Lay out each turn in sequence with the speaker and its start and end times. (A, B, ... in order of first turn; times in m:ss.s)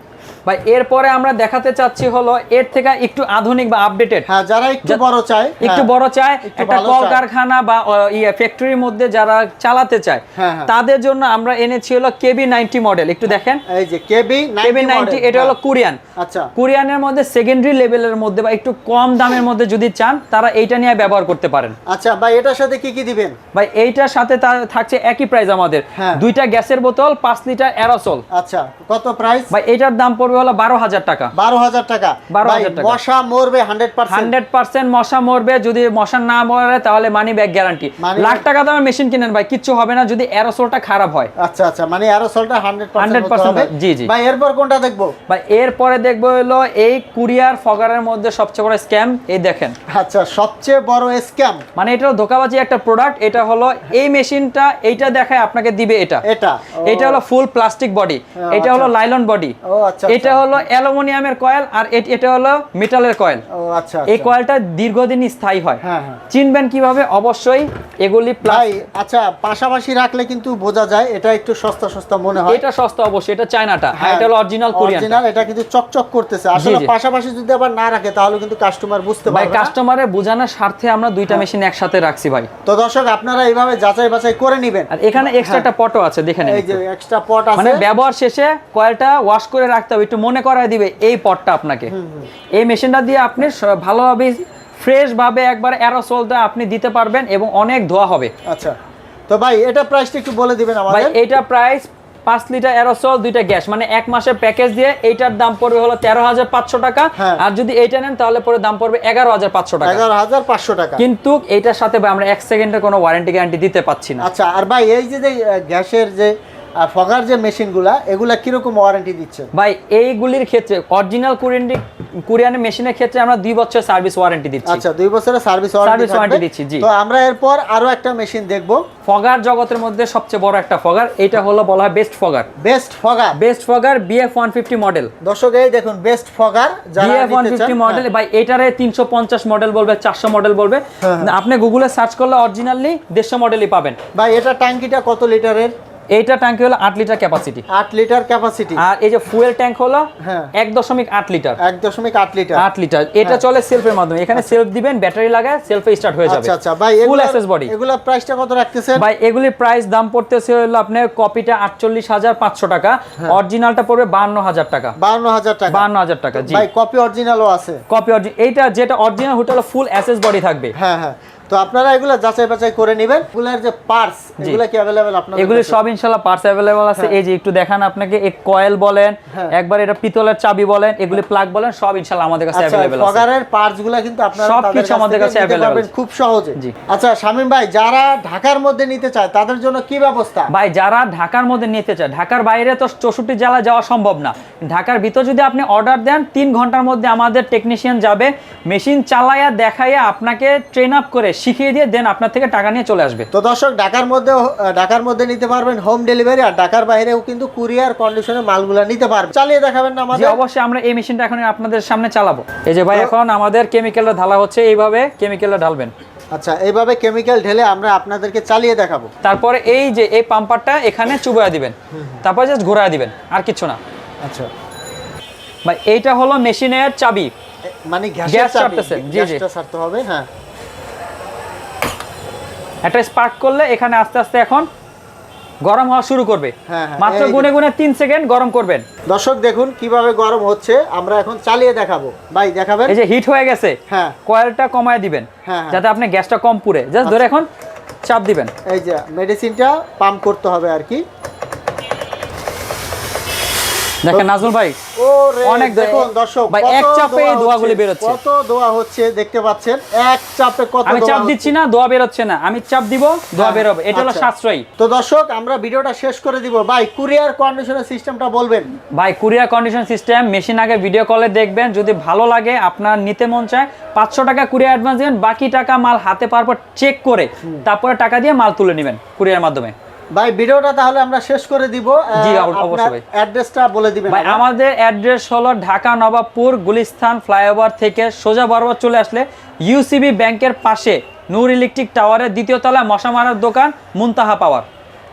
0:00.5-0:04.3 A
0:04.3-0:05.9 B
0:05.6-0:13.6 A
0:06.5-0:07.2 B
0:10.4-0:10.7 B
0:13.7-0:15.6 B
0:14.6-0:16.0 A
0:16.2-0:16.5 B
0:16.6-0:21.8 A
0:21.9-0:23.4 B
0:23.5-0:28.2 A
0:26.0-0:26.2 B
0:28.4-0:29.5 B
0:29.5-0:31.3 A
0:31.4-0:34.3 B
0:32.3-0:33.0 A
0:34.1-0:41.3 A
0:38.0-0:38.4 B
0:41.4-0:45.1 B
0:43.0-0:44.1 A
0:45.3-0:49.8 A
0:49.9-0:51.6 B
0:51.8-0:56.2 A
0:56.3-0:57.2 B
0:56.9-0:59.6 A
0:58.4-0:58.9 B
0:59.7-1:00.6 B
1:00.1-1:03.4 A
1:03.6-1:04.3 B
1:04.1-1:08.7 A
1:05.8-1:06.2 B
1:08.4-1:12.6 B
1:12.5-1:15.2 A
1:14.0-1:19.7 B
1:16.6-1:16.9 A
1:19.3-1:22.5 A
1:22.7-1:25.7 B
1:24.9-1:26.8 A
1:26.4-1:27.8 B
1:27.6-1:31.9 A
1:31.9-1:32.3 B
1:32.6-1:38.3 A
1:38.5-1:38.7 B
1:39.3-1:41.2 B
1:40.9-1:50.0 A
1:49.8-1:51.0 B
1:51.0-1:54.2 A
1:54.2-1:59.5 B
1:59.5-2:04.8 A
2:04.7-2:08.8 B
2:05.8-2:06.9 A
2:09.1-2:12.5 A
2:12.6-2:13.4 B
2:13.4-2:15.1 A
2:15.2-2:18.0 B
2:17.0-2:24.0 A
2:21.0-2:21.3 B
2:24.2-2:25.7 B
2:26.1-2:27.6 A
2:27.7-2:28.8 B
2:28.8-2:31.6 A
2:30.2-2:30.5 B
2:31.6-2:32.6 B
2:32.6-2:36.5 A
2:36.3-2:39.0 B
2:37.0-2:37.7 A
2:39.0-2:45.0 A
2:45.0-2:45.8 B
2:45.7-2:46.7 A
2:46.4-2:47.8 B
2:47.9-2:50.7 A
2:50.8-2:55.8 B
2:55.4-3:03.2 A
3:02.5-3:10.5 B
3:04.4-3:05.9 A
3:10.5-3:23.3 A
3:23.3-3:30.4 B
3:30.1-3:35.9 A
3:36.3-3:39.1 B
3:39.2-3:43.8 A
3:41.9-3:42.2 B
3:44.2-3:44.5 B
3:45.6-3:47.3 A
3:47.9-3:50.3 B
3:48.3-3:49.4 A
3:52.8-3:54.7 A
3:55.6-3:58.8 A
3:56.7-3:57.5 B
3:59.1-4:03.0 B
4:02.9-4:07.5 A
4:03.9-4:04.2 B
4:05.5-4:05.8 B
4:08.0-4:08.5 A
4:08.7-4:11.0 B
4:14.0-4:14.8 A
4:14.1-4:14.5 B
4:15.0-4:21.5 B
4:15.4-4:18.2 A
4:20.9-4:24.6 A
4:23.4-4:28.7 B
4:29.0-4:39.7 A
4:40.2-4:44.4 B
4:42.2-4:43.0 A
4:44.1-4:54.7 A